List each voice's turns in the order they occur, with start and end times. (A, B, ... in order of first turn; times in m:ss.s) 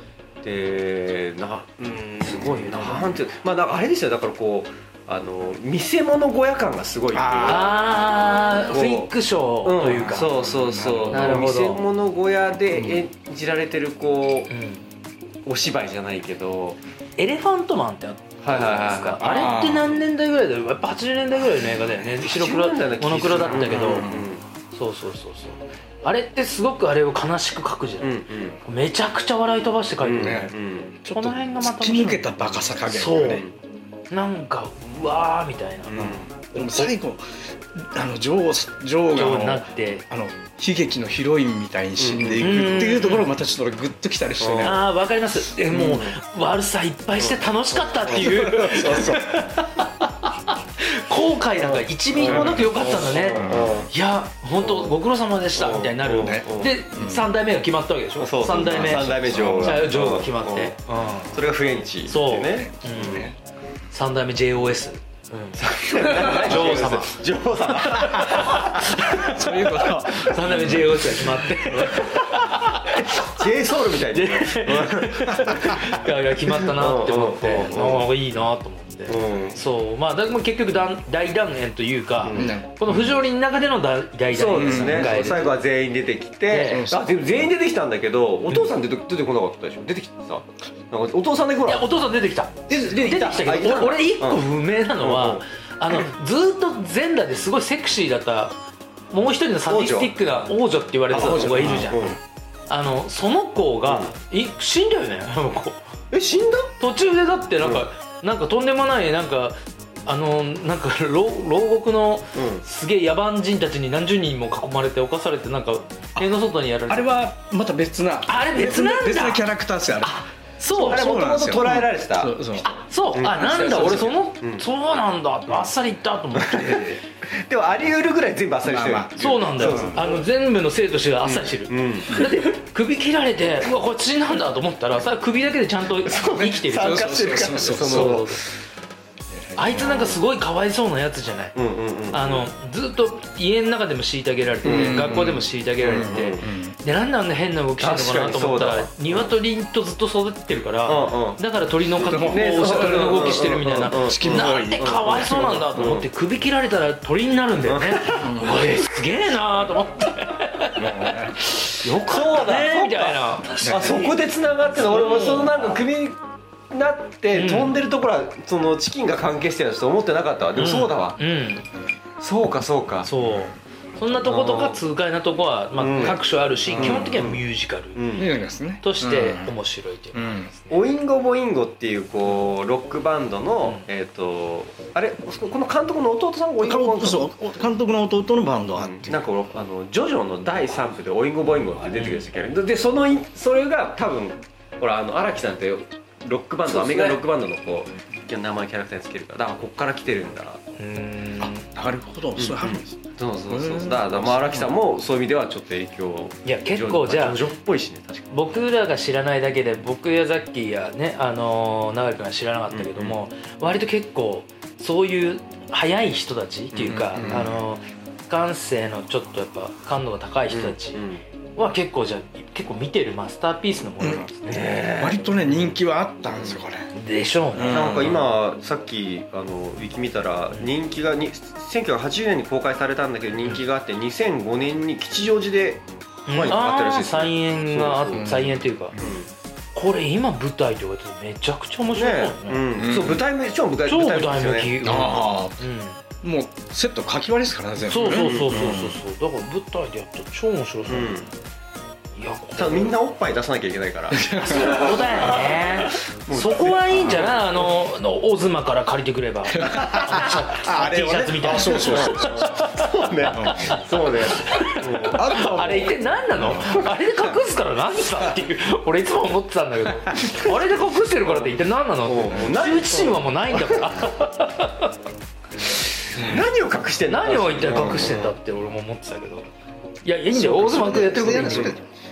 0:00.4-0:09.1 A
0:02.2-0:03.2 B
0:07.1-0:07.7 C
0:07.4-0:10.3 B
0:09.6-0:14.5 A
0:10.1-0:11.4 C
0:11.1-0:11.8 B
0:12.7-0:13.0 C
0:14.5-0:14.8 B
0:15.4-0:16.8 A
0:17.2-0:24.1 B
0:18.4-0:19.5 A
0:19.2-0:20.0 C
0:22.2-0:24.4 A
0:23.5-0:24.3 C
0:24.7-0:30.5 B
0:28.0-0:28.6 A
0:30.0-0:31.0 A
0:30.2-0:30.5 C
0:31.0-0:33.4 C
0:31.1-0:32.3 B
0:32.8-0:33.4 B
0:33.1-0:33.5 A
0:34.1-0:36.9 B
0:35.9-0:36.2 A
0:36.0-0:44.8 C
0:39.1-0:40.0 B
0:42.0-0:42.7 A
0:42.4-0:43.2 B
0:44.4-0:44.8 A
0:44.6-1:01.4 B
0:45.7-0:46.1 A
0:47.9-0:49.2 A
0:48.1-0:49.3 C
0:51.6-0:53.9 A
0:52.2-0:53.8 C
0:54.6-0:55.0 A
0:55.5-0:56.8 A
0:56.2-0:57.3 C
0:58.2-1:00.8 A
0:58.6-0:59.9 C
1:01.3-1:03.3 A
1:02.1-1:03.3 B
1:02.6-1:03.3 C
1:03.9-1:07.2 B
1:05.6-1:09.0 A
1:07.8-1:13.4 B
1:08.0-1:11.5 C
1:11.8-1:12.2 A
1:13.1-1:15.9 A
1:14.1-1:25.5 B
1:16.5-1:18.1 A
1:17.6-1:18.0 C
1:19.1-1:19.6 A
1:22.2-1:22.5 A
1:22.3-1:23.1 C
1:24.3-1:31.9 A
1:24.6-1:25.2 C
1:26.5-1:26.9 B
1:26.7-1:27.1 C
1:31.7-1:38.6 B
1:32.7-1:34.4 A
1:35.0-1:35.4 A
1:39.1-1:42.1 B
1:39.6-1:40.1 A
1:41.1-1:42.2 C
1:41.1-1:42.2 A
1:42.7-1:45.8 B
1:43.8-1:44.1 A
1:46.1-1:46.7 A
1:46.8-1:57.1 B
1:52.3-1:52.6 A
1:56.9-2:02.7 C
1:58.3-1:59.4 B
2:00.0-2:01.0 B
2:00.8-2:02.4 A
2:02.6-2:06.9 B
2:03.1-2:04.6 A
2:03.2-2:04.1 C
2:06.4-2:10.2 A
2:06.5-2:07.0 C
2:08.6-2:10.0 C
2:09.2-2:17.1 B
2:11.2-2:12.3 A
2:16.0-2:18.4 A
2:16.7-2:18.3 C
2:17.7-2:18.4 B
2:19.3-2:20.2 C
2:19.6-2:21.5 B
2:21.5-2:22.5 A
2:22.1-2:44.1 B
2:24.6-2:26.5 A
2:24.6-2:26.8 C
2:27.8-2:29.3 A
2:30.8-2:31.4 A
2:32.0-2:36.0 A
2:32.1-2:35.6 C
2:37.6-2:38.6 A
2:38.2-2:38.7 C
2:40.8-2:41.4 C
2:41.8-2:46.2 A
2:43.6-2:44.0 C
2:45.0-2:45.4 B
2:46.7-2:51.2 A
2:47.3-2:47.7 B
2:50.6-2:51.7 B
2:52.2-2:53.1 A
2:53.0-2:58.0 B
2:53.2-2:53.5 C
2:54.2-2:54.8 A
2:55.8-2:57.4 A
2:56.7-2:57.2 C
2:57.9-2:58.3 A
2:58.2-2:59.5 C
2:58.8-3:00.8 B
3:00.1-3:00.5 C
3:00.7-3:07.3 A
3:06.6-3:09.2 C
3:08.8-3:20.6 A
3:11.9-3:12.2 B
3:16.7-3:17.2 B
3:20.8-3:21.6 B
3:21.4-3:24.7 C
3:22.4-3:28.6 A
3:26.4-3:27.4 B
3:28.3-3:41.0 B
3:32.7-3:33.2 A
3:36.7-3:37.5 A
3:37.1-3:37.6 C
3:40.5-3:41.2 A
3:41.6-3:44.6 B
3:44.0-3:44.3 C
3:44.4-3:45.3 A
3:45.0-3:46.9 C
3:46.4-3:46.6 A
3:46.9-3:48.3 B
3:47.5-3:48.2 C
3:47.7-3:58.2 A
3:56.3-3:58.9 B
3:58.1-3:59.2 C
3:59.0-3:59.3 A
3:59.7-4:02.6 B
4:01.9-4:05.0 A
4:02.8-4:03.2 C
4:03.8-4:06.0 B
4:04.8-4:05.6 C
4:06.2-4:09.0 C
4:07.9-4:11.2 B
4:08.0-4:08.7 A
4:10.9-4:11.3 A
4:12.2-4:12.9 B
4:12.6-4:17.6 A
4:14.1-4:15.0 C
4:14.3-4:34.9 B
4:19.5-4:22.6 C
4:21.4-4:25.9 A
4:23.3-4:23.8 C
4:25.1-4:25.8 C
4:26.4-4:26.8 C
4:31.2-4:31.5 A
4:32.0-4:33.9 A
4:36.1-4:38.3 A
4:37.1-4:39.5 B
4:40.0-4:41.8 B
4:40.3-4:41.8 C
4:41.3-4:41.7 A